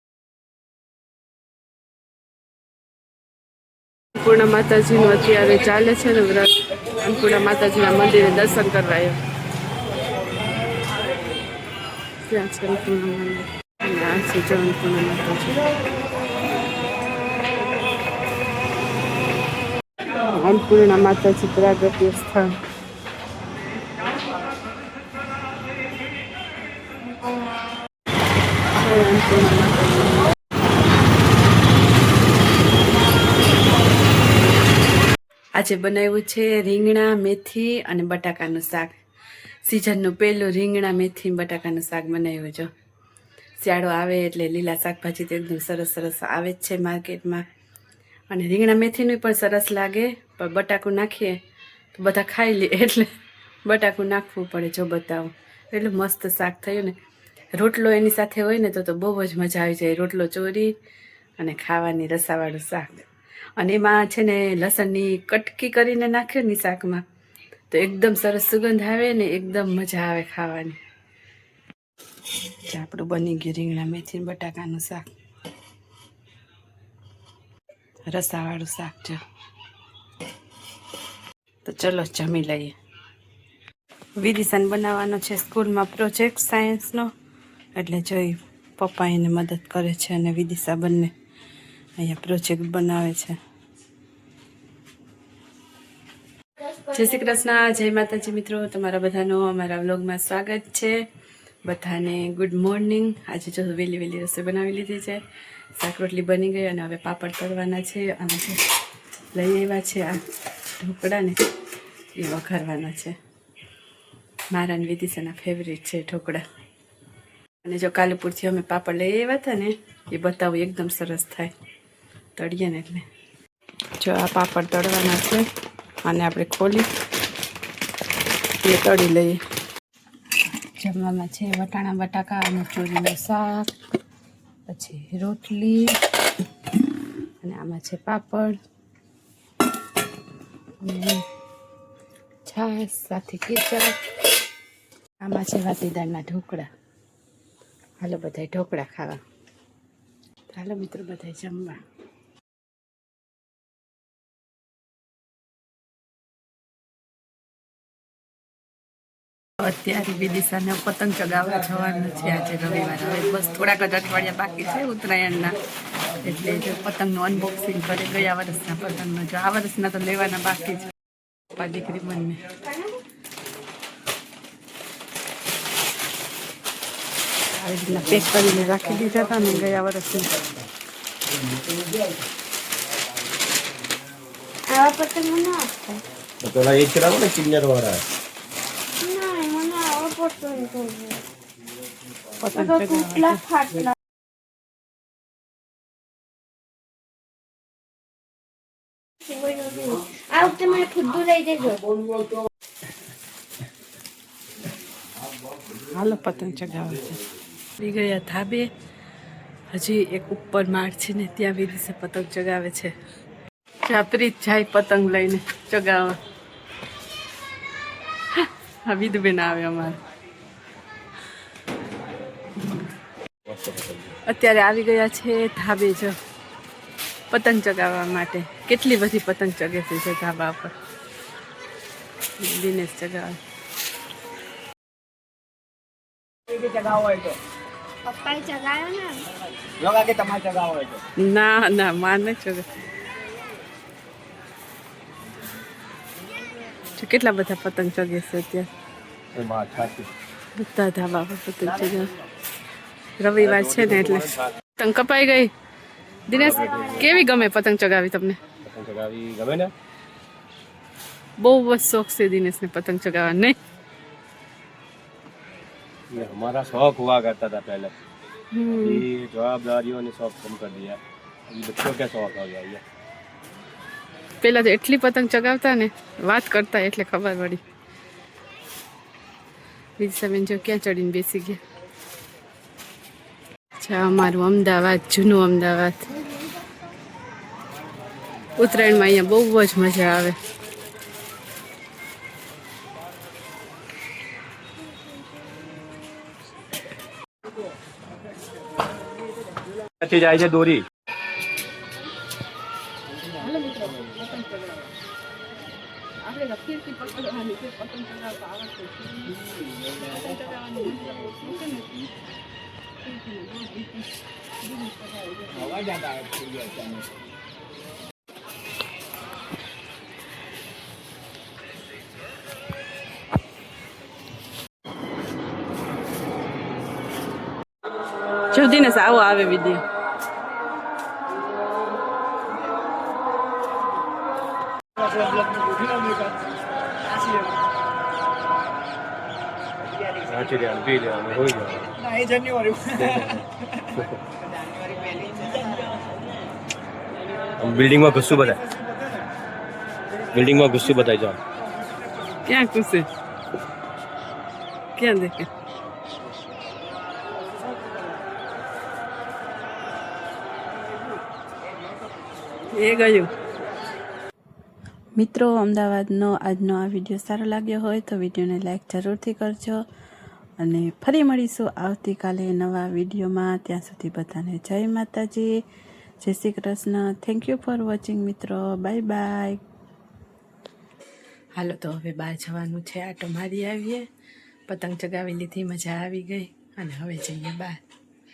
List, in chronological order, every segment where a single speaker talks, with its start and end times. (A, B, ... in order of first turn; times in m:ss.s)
0:04.1-0:09.2 A
0:12.2-0:15.7 A
0:20.2-0:22.5 A
0:28.8-0:30.2 A
0:35.6-0:38.9 A
0:39.6-0:42.7 A
0:43.6-0:47.4 A
0:48.3-0:51.4 A
0:51.9-0:53.1 A
0:53.6-0:57.0 A
0:57.5-1:00.7 A
1:01.4-1:07.0 A
1:07.7-1:10.8 A
1:12.7-1:15.0 A
1:18.1-1:19.2 A
1:21.6-1:22.8 A
1:24.2-1:27.1 A
1:27.8-1:31.1 A
1:32.0-1:33.4 A
1:36.8-1:40.9 A
1:41.6-1:45.2 A
1:45.8-1:48.6 A
1:49.4-1:50.2 A
1:50.8-1:51.4 A
1:52.1-1:53.2 A
1:54.5-1:56.4 A
1:57.6-2:01.5 A
2:02.4-2:03.0 A
2:04.0-2:05.4 A
2:06.0-2:06.9 A
2:08.6-2:09.4 A
2:10.8-2:13.7 A
2:14.7-2:16.0 A
2:17.4-2:18.6 A
2:20.8-2:21.2 A
2:22.5-2:24.0 A
2:25.2-2:26.7 A
2:28.0-2:29.2 A
2:30.5-2:31.8 A
2:39.6-2:45.6 A
2:46.2-2:50.9 A
2:51.5-2:52.4 A
2:52.6-2:53.0 B
2:57.6-3:00.4 A
3:04.7-3:06.0 B
3:06.4-3:08.0 C
3:09.0-3:11.2 B
3:12.4-3:13.4 A
3:12.5-3:14.0 B
3:19.2-3:21.8 B
3:25.9-3:27.2 A
3:27.8-3:28.7 A
3:29.7-3:32.9 A
3:33.8-3:36.2 A
3:38.3-3:40.0 A
3:43.5-3:44.2 C
3:44.3-3:46.2 A
3:47.3-3:50.7 A
3:52.4-3:53.4 A
3:56.5-3:57.3 D
3:58.0-3:59.2 B
3:59.8-4:01.0 D
4:01.2-4:02.7 A
4:07.0-4:08.7 A
4:09.4-4:10.1 C
4:10.6-4:12.1 A
4:13.2-4:15.5 A
4:13.4-4:14.5 C
4:16.3-4:18.4 A
4:16.4-4:17.2 C
4:16.6-4:17.1 B
4:18.6-4:19.7 C
4:21.4-4:23.6 A
4:26.1-4:27.9 C
4:28.5-4:29.0 A
4:28.7-4:32.8 C
4:34.4-4:37.6 A
4:40.0-4:41.6 A
4:43.8-4:46.1 A
4:48.6-4:50.4 A
5:00.0-5:00.9 C
5:03.5-5:03.9 A
5:06.3-5:09.3 A
5:10.0-5:12.0 A
5:13.1-5:13.6 A
5:15.7-5:16.8 D
5:28.5-5:29.8 A
5:35.0-5:36.2 D
5:40.2-5:42.0 C
5:42.1-5:43.1 D
5:42.9-5:44.2 C
5:47.6-5:48.6 C
5:50.3-5:51.4 C
5:52.4-5:53.1 A
5:55.0-5:55.5 A
6:02.7-6:03.3 A
6:05.2-6:09.8 A
6:10.6-6:15.5 A
6:16.2-6:19.6 A
6:21.6-6:24.1 A
6:24.7-6:27.8 A